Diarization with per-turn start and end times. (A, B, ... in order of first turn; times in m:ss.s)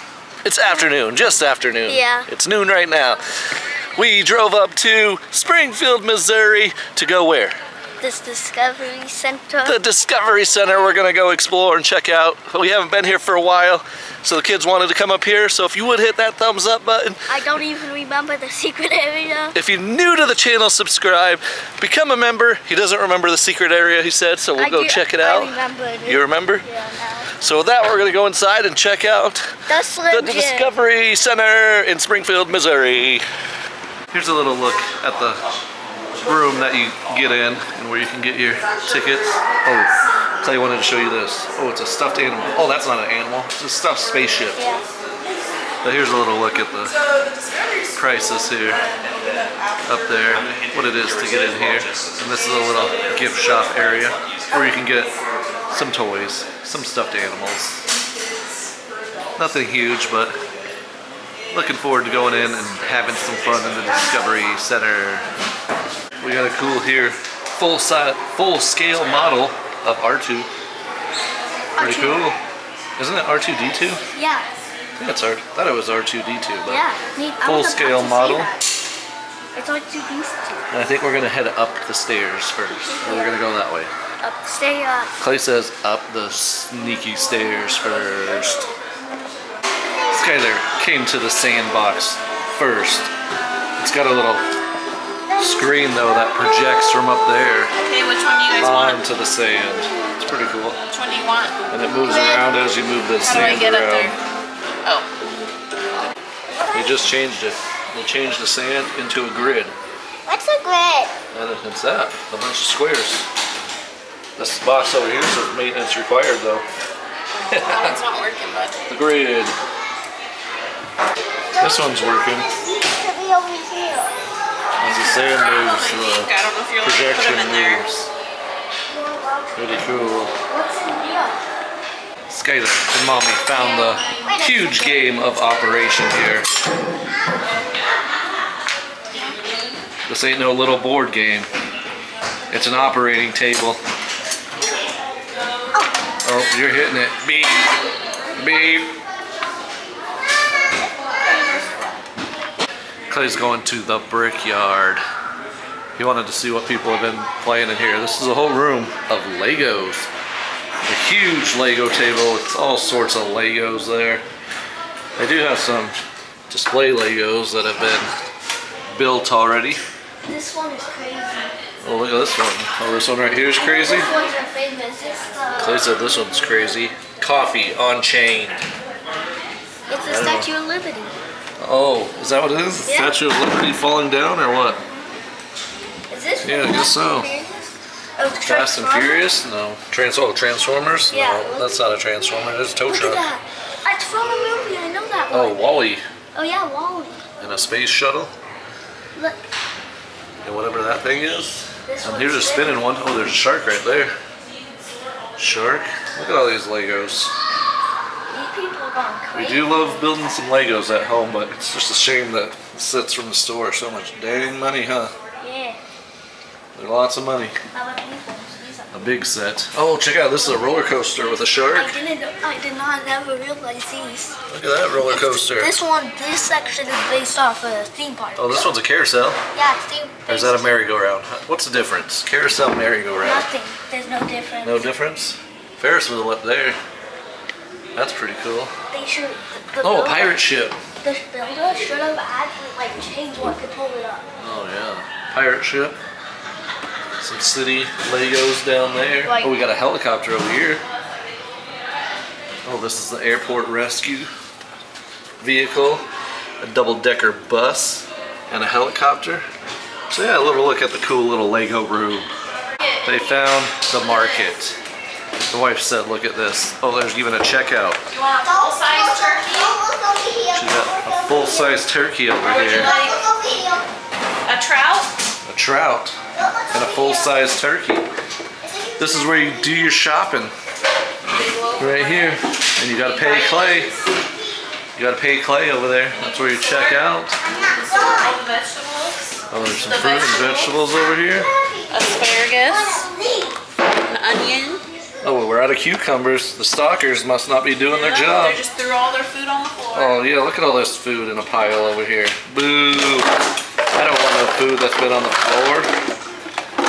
0:00.4-0:03.2 A
0:01.9-0:02.3 B
0:03.9-0:07.6 A
0:08.0-0:09.8 B
0:09.6-0:17.3 A
0:17.3-0:19.6 B
0:19.5-0:26.7 A
0:24.6-0:27.3 B
0:27.4-0:33.2 A
0:29.7-0:30.7 B
0:34.1-0:35.4 A
0:36.2-0:44.7 A
0:44.6-0:44.9 B
0:45.8-0:47.0 A
0:47.9-0:48.9 A
0:49.2-0:49.7 C
0:49.8-0:55.1 A
0:55.7-0:57.8 A
0:59.4-1:00.4 A
1:01.5-1:05.3 A
1:06.2-1:10.5 A
1:11.8-1:12.3 B
1:11.8-1:12.4 A
1:13.0-1:14.0 A
1:14.1-1:14.5 B
1:15.0-1:16.8 A
1:16.7-1:18.6 B
1:17.4-1:18.5 A
1:19.6-1:20.7 B
1:20.7-1:23.9 A
1:22.8-1:23.4 B
1:24.2-1:25.1 B
1:25.2-1:28.7 A
1:30.1-1:33.1 A
1:33.8-1:34.4 A
1:35.3-1:35.7 B
1:35.4-1:37.7 A
1:37.8-1:39.0 C
1:38.6-1:40.8 A
1:40.9-1:41.6 C
1:41.7-1:44.2 A
1:42.1-1:42.4 B
1:43.2-1:44.2 C
1:46.7-1:49.7 A
1:50.3-1:51.1 B
1:51.3-1:53.3 A
1:54.4-1:56.6 A
1:57.3-1:58.8 C
1:57.5-1:58.0 A
1:58.9-1:59.6 A
2:01.6-2:02.5 A
2:01.7-2:04.1 B
2:04.8-2:08.1 A
2:04.9-2:07.9 C
2:08.9-2:09.6 B
2:09.5-2:10.4 A
2:10.5-2:11.4 B
2:12.3-2:16.5 A
2:14.2-2:15.2 B
2:20.1-2:21.5 A
2:22.5-2:23.8 A
2:26.2-2:27.6 A
2:28.3-2:29.0 A
2:31.2-2:31.7 B
2:33.1-2:35.0 A
2:36.0-2:40.1 A
2:40.9-2:44.2 A
2:45.2-2:46.0 A
2:46.5-2:48.1 A
2:48.9-2:49.8 A
2:50.2-2:51.6 B
2:51.8-2:54.1 A
2:53.6-2:55.9 B
2:55.6-2:58.6 A
2:59.9-3:01.2 B
3:00.0-3:00.5 A
3:01.6-3:04.8 A
3:02.8-3:03.2 B
3:06.1-3:09.2 B
3:06.4-3:07.3 A
3:08.4-3:13.3 A
3:11.1-3:11.8 B
3:12.9-3:15.8 B
3:15.3-3:16.0 A
3:16.4-3:17.2 B
3:17.4-3:18.3 A
3:20.4-3:24.2 A
3:21.9-3:23.2 B
3:25.4-3:27.4 A
3:28.3-3:30.1 B
3:29.3-3:35.1 A
3:35.4-3:35.8 B
3:36.8-3:37.6 A
3:37.7-3:39.2 B
3:38.9-3:42.0 A
3:41.7-3:44.4 B
3:44.5-3:45.8 A
3:45.1-3:48.7 B
3:48.4-3:49.4 A
3:49.6-3:50.8 B
3:50.3-3:53.5 A
3:53.2-3:54.9 B
3:54.6-3:56.8 A
3:58.0-3:58.7 A
3:58.9-4:00.4 B
3:59.8-4:00.8 A
4:01.0-4:04.2 B
4:04.4-4:06.0 A
4:07.2-4:10.8 A
4:09.2-4:09.5 B
4:12.6-4:14.3 A
4:15.4-4:16.0 A
4:16.6-4:19.4 A
4:20.1-4:22.3 A
4:23.0-4:24.8 A
4:23.9-4:24.3 C
4:25.5-4:28.0 A
4:28.1-4:29.8 C
4:28.4-4:31.8 B
4:30.5-4:32.9 A
4:32.4-4:33.3 C
4:32.7-4:33.9 B
4:34.4-4:35.1 C
4:35.4-4:36.2 A
4:36.3-4:37.5 B
4:36.7-4:38.1 A
4:38.6-4:40.0 B
4:39.0-4:40.5 A
4:41.3-4:44.1 C
4:41.8-4:43.9 A
4:44.2-4:44.6 B
4:45.0-4:47.4 A
4:46.1-4:50.7 C
4:47.4-4:48.4 B
4:49.5-4:51.6 A
4:50.0-4:53.6 B
4:51.9-4:53.1 C
4:54.1-4:54.8 C
4:55.2-4:58.6 A
4:57.8-5:00.2 C
4:59.9-5:03.3 A
5:03.9-5:05.9 A